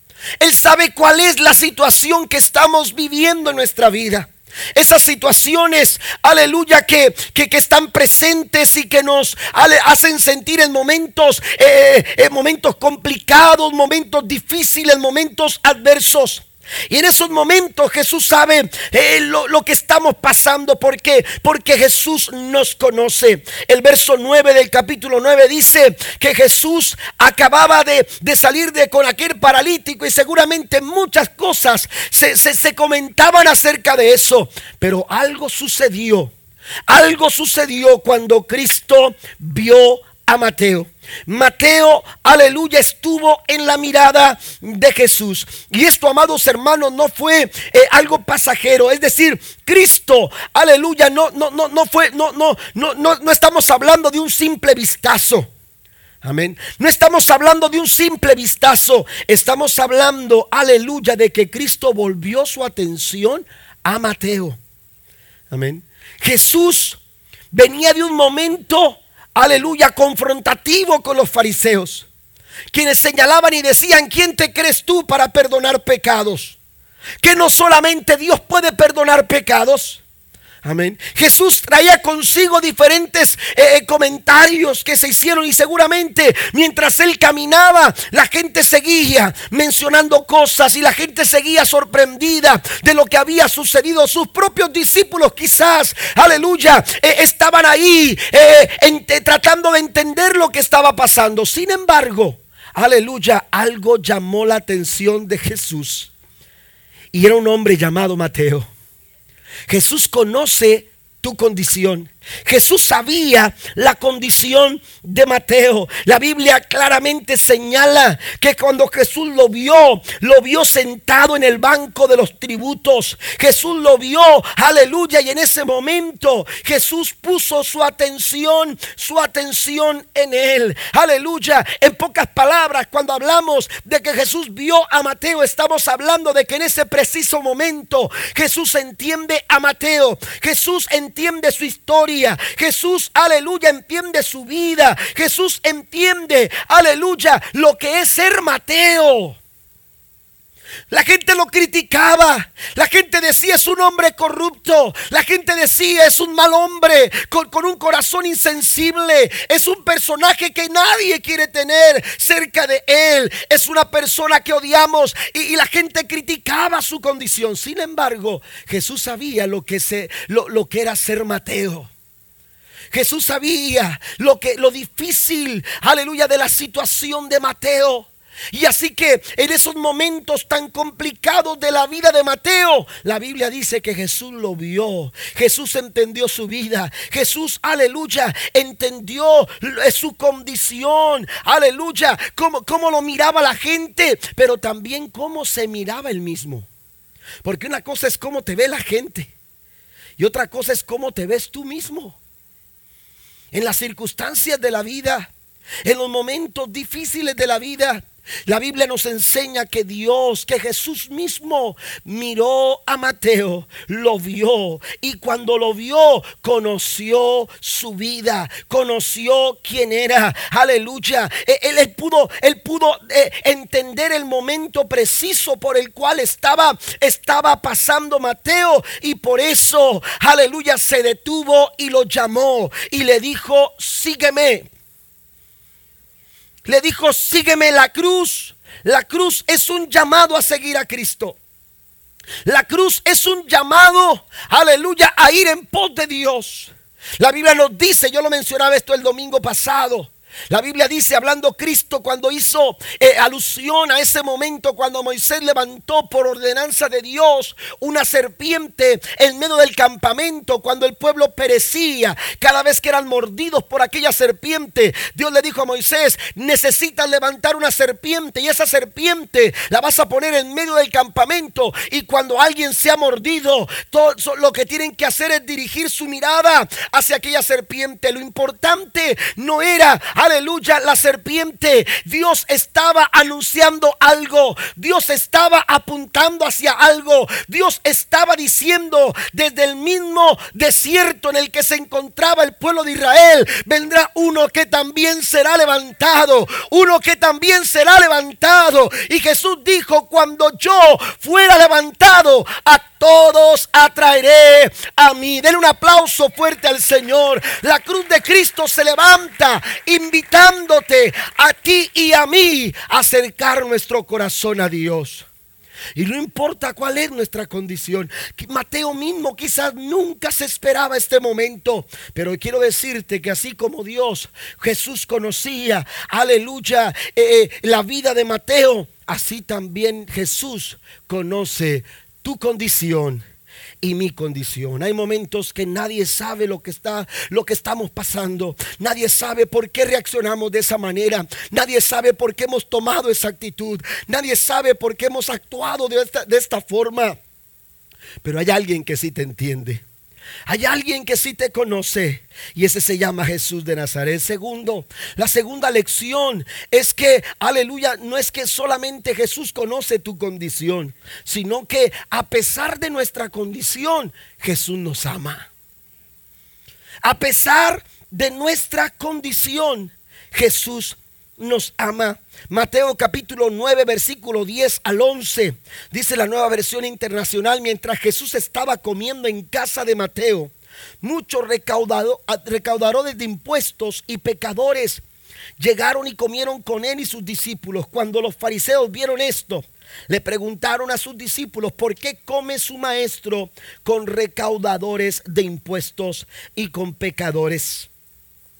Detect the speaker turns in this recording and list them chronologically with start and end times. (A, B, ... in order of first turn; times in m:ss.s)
0:00.4-0:36.3 A
0:36.9-0:55.5 A
0:56.2-1:04.6 A
1:05.5-1:07.0 A
1:07.5-1:12.1 A
1:12.7-1:16.6 A
1:17.2-1:20.0 A
1:20.6-1:46.1 A
1:47.1-1:48.7 A
1:49.7-2:29.4 A
2:30.9-2:51.9 A
2:52.9-3:16.7 A
3:17.4-3:19.3 A
3:20.2-3:22.2 A
3:23.5-3:25.3 A
3:25.8-3:54.7 A
3:56.6-4:01.4 A
4:02.4-5:15.3 A
5:16.0-5:33.2 A
5:33.8-5:47.2 A
5:48.2-5:49.8 A
5:50.5-6:05.5 A
6:07.0-6:25.0 A
6:25.6-6:37.9 A